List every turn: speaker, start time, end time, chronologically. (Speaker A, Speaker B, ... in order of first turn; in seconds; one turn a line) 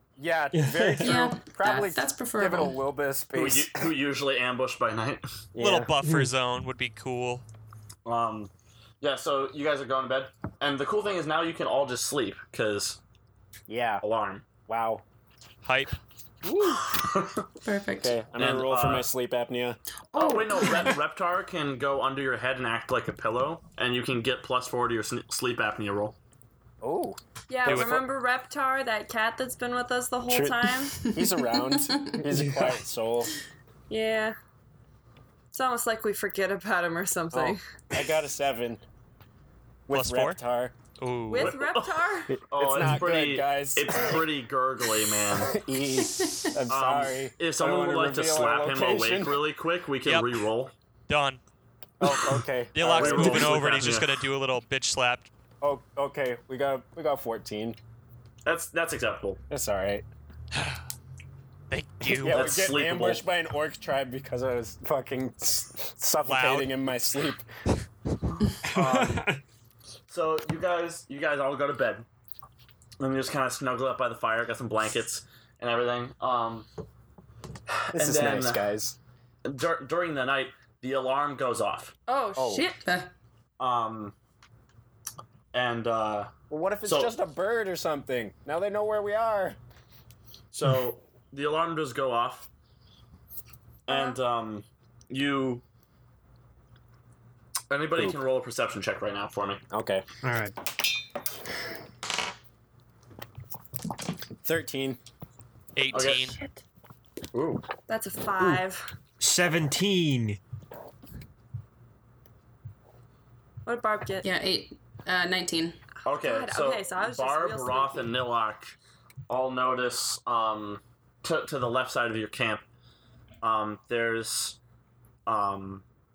Speaker A: 0.2-3.9
Speaker B: 0.5-1.1
Speaker C: 1.0-2.8
Speaker D: 3.3-5.4
Speaker A: 5.5-5.9
Speaker E: 5.6-7.4
Speaker B: 6.0-6.3
Speaker D: 8.1-8.5
Speaker D: 9.0-13.0
Speaker A: 13.7-14.0
Speaker D: 14.0-14.5
Speaker A: 14.7-15.0
Speaker E: 15.6-16.0
Speaker A: 16.4-16.9
Speaker D: 16.6-17.5
Speaker C: 17.6-18.1
Speaker A: 18.0-19.8
Speaker D: 18.4-19.1
Speaker D: 20.1-26.2
Speaker F: 20.2-20.9
Speaker A: 26.8-28.0
Speaker F: 27.5-31.0
Speaker E: 27.7-28.0
Speaker A: 30.3-33.3
Speaker C: 31.0-32.2
Speaker F: 33.9-34.4
Speaker F: 35.5-37.6
Speaker A: 37.3-38.8
Speaker A: 39.9-40.7
Speaker E: 39.9-40.4
Speaker E: 41.0-41.6
Speaker F: 41.3-42.3
Speaker D: 41.3-45.6
Speaker A: 42.3-44.3
Speaker A: 45.3-49.5
Speaker C: 46.1-46.5
Speaker D: 46.7-50.7
Speaker E: 50.0-50.4
Speaker E: 51.1-51.4
Speaker A: 52.0-53.6
Speaker E: 52.7-55.3
Speaker D: 52.8-54.2
Speaker A: 55.6-57.8
Speaker D: 58.5-59.4
Speaker A: 59.5-60.1
Speaker E: 60.5-60.8
Speaker E: 61.7-62.5
Speaker D: 62.1-63.2
Speaker A: 62.2-67.5
Speaker E: 66.2-66.8
Speaker D: 68.6-69.3
Speaker B: 68.7-69.4
Speaker D: 70.1-72.1
Speaker D: 73.0-76.7
Speaker D: 77.7-78.7
Speaker A: 77.9-79.0
Speaker D: 79.5-82.0
Speaker F: 82.1-82.8
Speaker A: 82.4-82.7
Speaker C: 82.8-83.1
Speaker D: 83.6-84.2
Speaker D: 85.5-86.3
Speaker A: 86.5-89.6
Speaker D: 86.8-87.2
Speaker D: 90.5-92.5
Speaker D: 93.9-95.6
Speaker F: 93.9-94.2
Speaker D: 97.7-99.6
Speaker A: 99.7-100.0
Speaker B: 100.2-100.5
Speaker A: 104.4-105.0
Speaker E: 105.8-106.4
Speaker D: 105.9-106.3
Speaker F: 105.9-106.5
Speaker D: 107.3-107.7
Speaker F: 107.9-108.8
Speaker B: 109.2-110.4
Speaker F: 113.7-114.2
Speaker C: 114.2-115.8
Speaker D: 116.0-118.8
Speaker F: 116.1-118.1
Speaker D: 119.3-122.6
Speaker D: 123.4-124.6
Speaker D: 125.3-125.8